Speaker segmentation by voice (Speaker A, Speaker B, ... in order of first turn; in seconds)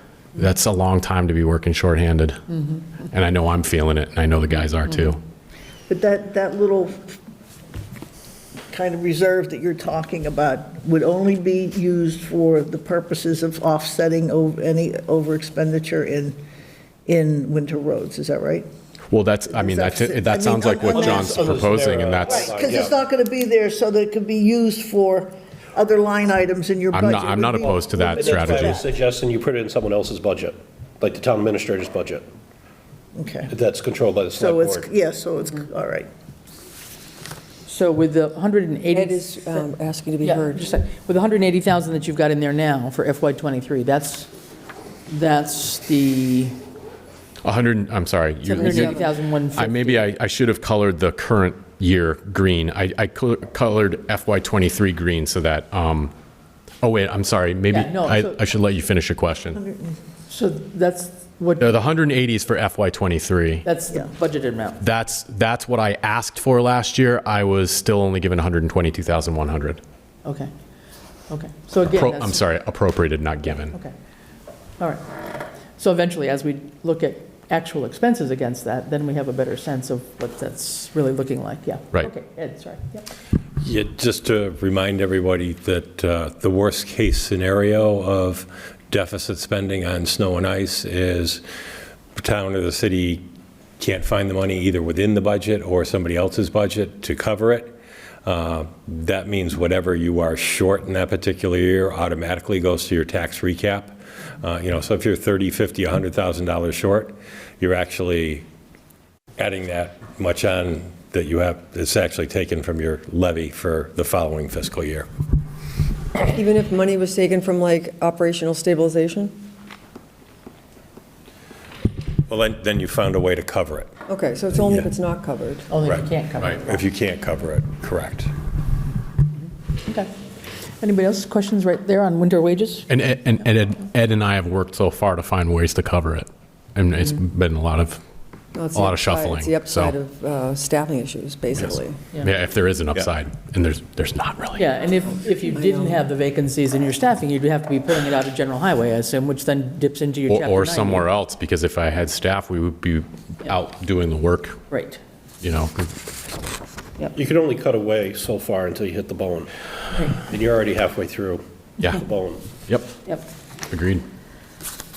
Speaker A: 0.4-2.4, 3.1-5.2, 19.1-22.5, 26.9-28.8, 47.4-56.1, 56.8-59.6, 61.6-63.6, 64.8-69.8, 71.8-73.8, 132.9-138.0, 138.8-139.9, 141.6-144.7, 150.3-154.6, 155.4-155.9, 162.7-162.9, 163.7-164.0
Speaker B: 5.9-7.2, 8.7-16.4, 17.1-18.7, 19.5-21.6, 22.2-28.9, 33.1-33.5, 34.4-36.1, 59.5-60.0
Speaker C: 20.8-22.9, 28.2-32.3, 33.5-34.9, 157.1-159.5, 160.2-162.4
Speaker D: 37.7-39.6, 40.2-44.3, 45.1-46.6, 48.5-50.0, 57.7-58.4, 60.3-61.8, 63.6-64.8, 70.2-70.5, 71.3-72.4, 75.8-83.0, 125.7-126.8, 129.8-130.1, 130.8-132.9, 144.6-151.1, 154.7-155.0, 159.9-160.2
Speaker E: 38.9-40.7, 48.5-49.1, 116.2-119.4, 124.1-125.7, 138.5-142.0, 145.1-146.0
Speaker F: 83.6-91.4, 92.2-93.3, 93.8-97.7, 98.2-108.5, 109.4-115.1, 122.3-123.9, 125.8-126.1, 126.6-128.3